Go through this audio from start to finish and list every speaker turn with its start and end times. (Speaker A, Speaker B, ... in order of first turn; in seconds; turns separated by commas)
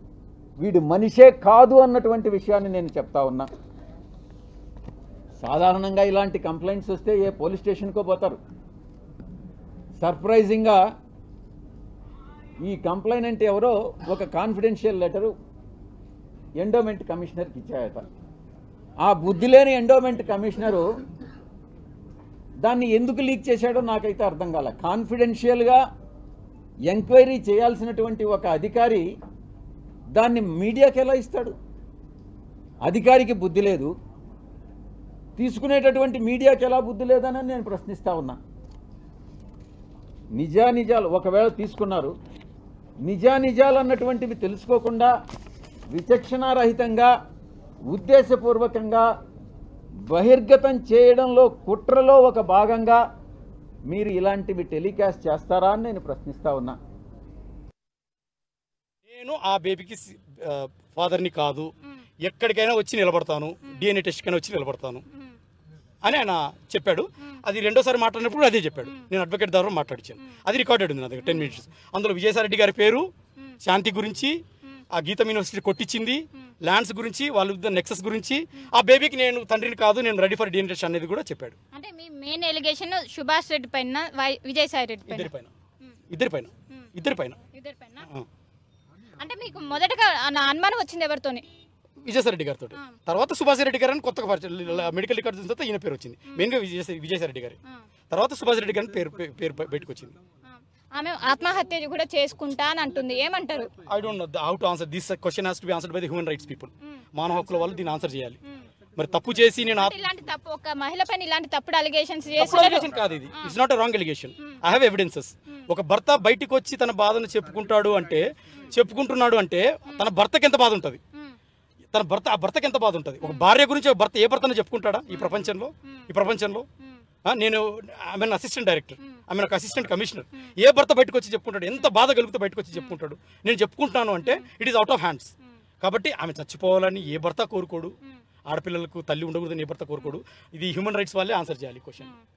Speaker A: 0.6-3.5, Speaker A: 5.4-8.4, Speaker A: 10.0-10.8, Speaker A: 12.6-15.3, Speaker A: 16.6-18.1, Speaker A: 19.0-20.9, Speaker A: 22.6-25.8, Speaker A: 26.9-29.0, Speaker A: 30.2-31.5, Speaker A: 32.9-33.9, Speaker A: 35.4-38.4, Speaker A: 40.4-42.1, Speaker A: 43.1-45.1, Speaker A: 45.9-47.1, Speaker A: 47.9-49.0, Speaker A: 50.1-53.0, Speaker A: 53.9-56.8, Speaker B: 59.1-61.7, Speaker B: 62.3-65.0, Speaker B: 66.0-73.1, Speaker C: 71.2-71.6, Speaker B: 73.7-74.4, Speaker B: 75.0-81.6, Speaker C: 81.7-86.0, Speaker B: 85.2-85.5, Speaker B: 86.1-87.4, Speaker C: 87.5-88.1, Speaker C: 89.2-91.5, Speaker B: 92.1-97.6, Speaker B: 98.1-100.2, Speaker C: 100.5-103.7, Speaker B: 103.9-108.4, Speaker B: 109.0-109.9, Speaker C: 109.8-113.6, Speaker B: 112.5-118.2, Speaker B: 118.7-121.0, Speaker B: 121.9-126.7, Speaker C: 123.2-123.5, Speaker C: 125.1-126.1, Speaker B: 127.3-137.9, Speaker B: 138.5-142.1